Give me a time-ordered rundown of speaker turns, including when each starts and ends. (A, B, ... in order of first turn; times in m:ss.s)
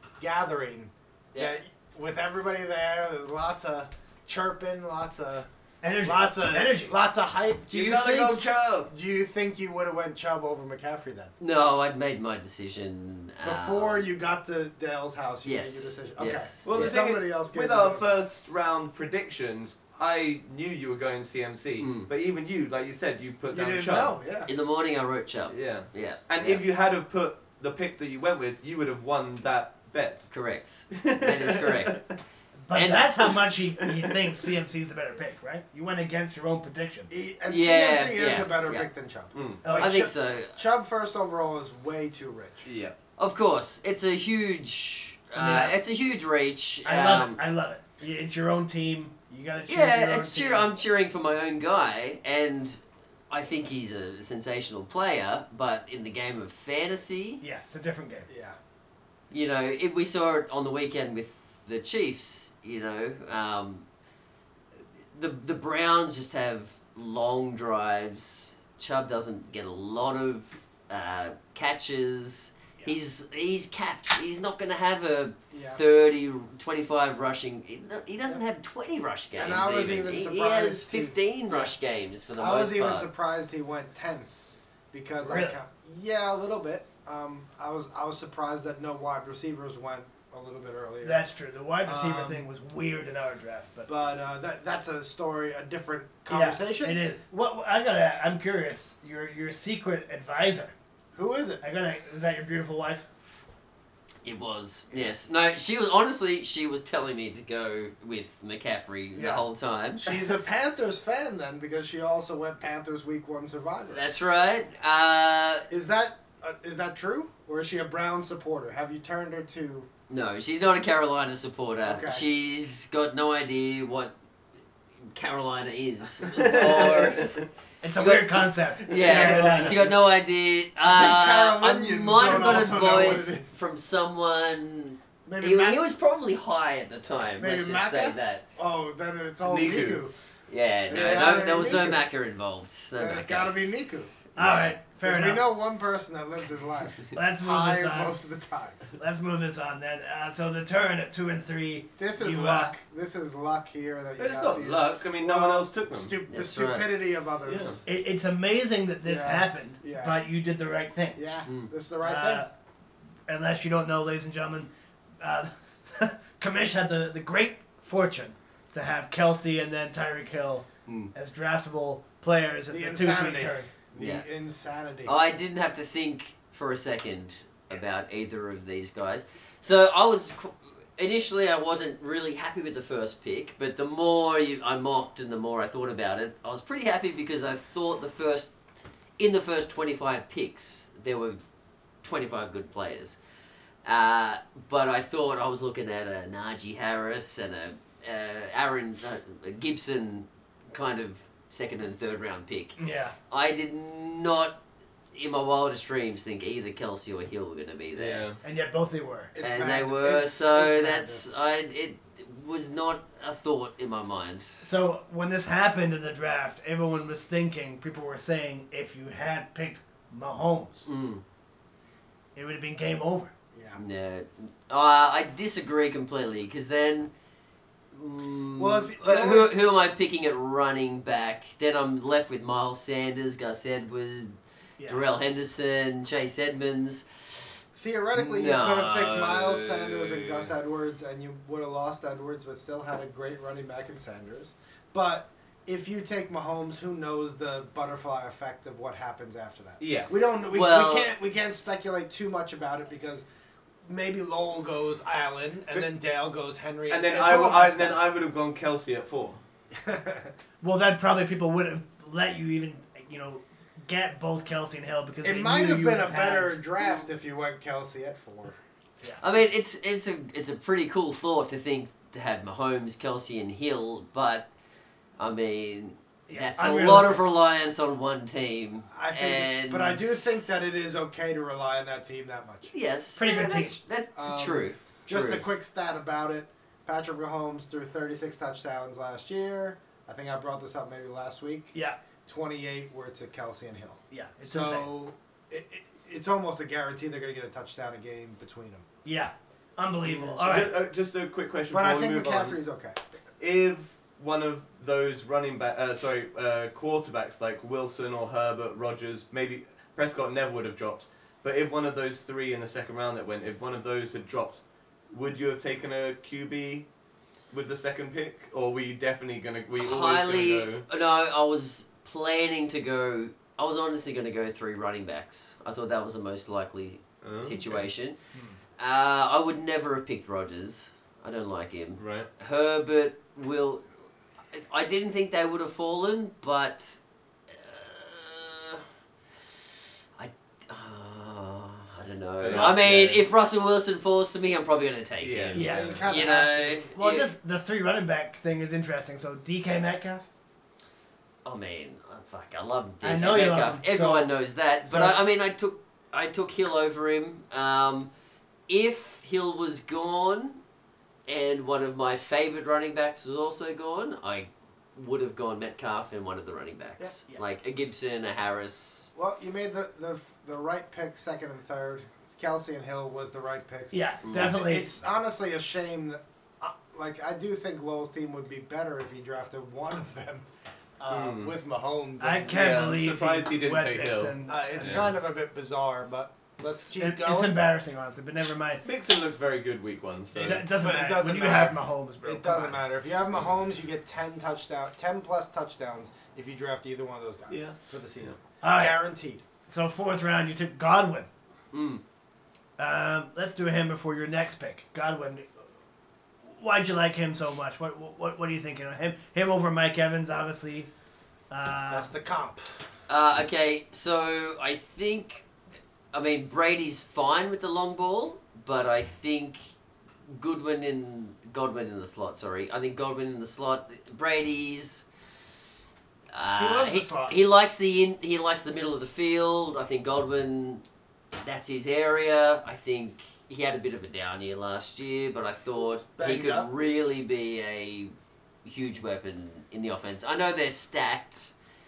0:00.2-0:05.5 A
0:05.8-0:07.0 B
0:06.0-0:11.3 A
0:07.7-0:08.9 C
0:11.4-0:14.1 D
0:13.4-0:18.2 A
0:15.4-0:16.9 D
0:16.6-0:24.1 C
0:21.8-0:22.1 D
0:23.5-0:24.5 A
0:24.5-0:26.6 D
0:25.5-0:30.3 C
0:30.3-0:32.0 D
0:30.9-0:32.1 C
0:32.6-0:37.1 B
0:32.7-0:33.1 D
0:33.8-0:34.5 C
0:37.1-0:42.7 A
0:37.5-0:38.9 D
0:39.3-0:39.6 C
0:39.6-0:40.0 B
0:39.7-0:40.6 D
0:42.6-0:43.0 C
0:43.2-0:47.4 D
0:45.4-0:45.8 B
0:46.8-0:50.7 B
0:49.7-0:52.8 D
0:53.3-0:57.4 D
0:57.4-0:58.3 B
0:58.3-0:58.6 A
0:59.3-1:03.8 D
1:05.1-1:23.1 D
1:15.5-1:15.8 A
1:19.4-1:21.7 A
1:22.4-1:24.3 A
1:24.9-1:31.2 A
1:25.2-1:25.6 B
1:31.0-1:33.9 B
1:31.8-1:32.5 A
1:33.9-1:37.0 A
1:36.3-1:40.7 B
1:41.1-1:41.6 A
1:41.6-1:43.1 B
1:44.2-1:50.0 D
1:44.9-1:45.1 B
1:49.1-1:49.4 B
1:50.0-1:54.0 A
1:53.9-1:55.7 D
1:55.7-1:59.9 A
2:00.1-2:04.1 D
2:01.8-2:02.2 A
2:05.1-2:07.4 D
2:06.2-2:07.4 C
2:07.8-2:09.8 B
2:07.9-2:18.4 D
2:09.0-2:09.9 A
2:10.8-2:13.6 A
2:15.3-2:15.8 A
2:17.4-2:20.1 A
2:19.4-2:20.0 C
2:20.5-2:23.6 D
2:20.9-2:22.0 A
2:20.9-2:21.6 C
2:23.0-2:24.1 A
2:24.4-2:24.8 D
2:24.4-2:25.4 B
2:25.0-2:28.8 A
2:27.1-2:28.1 B
2:29.0-2:32.7 B
2:32.0-2:37.8 A
2:34.2-2:36.1 C
2:36.3-2:36.9 D
2:37.4-2:37.8 C
2:37.8-2:41.2 B
2:39.0-2:40.2 A
2:41.2-2:42.5 A
2:41.4-2:41.7 D
2:42.0-2:42.5 B
2:43.3-2:53.7 B
2:50.9-2:51.1 D
2:52.7-2:55.1 A
2:54.0-2:54.2 D
2:55.1-3:08.5 D
3:09.2-3:11.4 D
3:12.0-3:13.2 D
3:13.8-3:22.8 D
3:22.8-3:23.1 B
3:23.3-3:24.6 D
3:25.1-3:28.3 D
3:28.0-3:28.4 C
3:28.4-3:29.3 B
3:29.3-3:31.3 A
3:29.4-3:34.5 D
3:34.6-3:40.9 B
3:40.9-3:41.2 D
3:42.4-3:43.3 B
3:43.5-3:43.8 A
3:43.8-3:47.1 D
3:47.9-3:57.6 D
3:48.6-3:49.5 A
3:54.8-3:55.0 B
3:57.7-4:13.2 A
3:58.1-4:00.0 D
4:09.8-4:10.1 C
4:10.5-4:11.1 D
4:13.8-4:18.1 A
4:16.9-4:19.4 C
4:19.7-4:20.3 A
4:20.6-4:26.6 B
4:25.2-4:28.6 A
4:29.2-4:34.5 D
4:35.2-4:40.7 D
4:36.3-4:37.2 B
4:38.9-4:42.7 A
4:42.7-4:45.4 D
4:43.2-4:43.8 B
4:44.1-4:51.8 A
4:52.3-4:58.9 A
4:54.1-4:54.9 B
4:59.0-5:00.7 B
5:00.3-5:02.6 C
5:01.7-5:03.0 A
5:03.4-5:16.9 C
5:17.5-5:20.8 C
5:19.8-5:28.2 D
5:27.2-5:27.9 C
5:28.3-5:28.6 B
5:28.8-5:33.9 D
5:32.0-5:32.3 C
5:34.5-5:38.9 D
5:40.2-5:47.3 D
5:42.4-5:43.2 C
5:45.2-5:46.0 C
5:45.5-5:46.0 B
5:45.5-5:46.9 A
5:46.9-5:50.3 B
5:51.4-5:58.1 D
5:53.0-5:54.3 B
5:54.9-5:55.2 B
5:58.7-6:00.6 D
6:01.3-6:09.1 D
6:07.0-6:07.4 B
6:09.1-6:20.5 A
6:13.9-6:14.9 B
6:14.2-6:14.6 D
6:21.0-6:22.6 A
6:21.1-6:21.5 C
6:22.2-6:25.1 B
6:22.5-6:25.1 C
6:24.4-6:27.6 A
6:26.9-6:28.8 B
6:28.8-6:30.7 C
6:30.4-6:32.8 B
6:30.4-6:39.4 A
6:37.5-6:38.3 C
6:38.6-6:39.0 B
6:39.7-6:41.3 B
6:41.7-6:42.0 D
6:42.8-6:45.5 B
6:46.4-6:50.9 B
6:51.5-6:52.1 B
6:51.9-6:52.9 A
6:53.1-6:55.4 D
6:56.1-6:59.6 D
7:00.3-7:05.0 D
7:06.3-7:10.8 D
7:06.6-7:07.4 A
7:11.4-7:18.1 D
7:16.0-7:16.7 A
7:18.6-7:21.5 D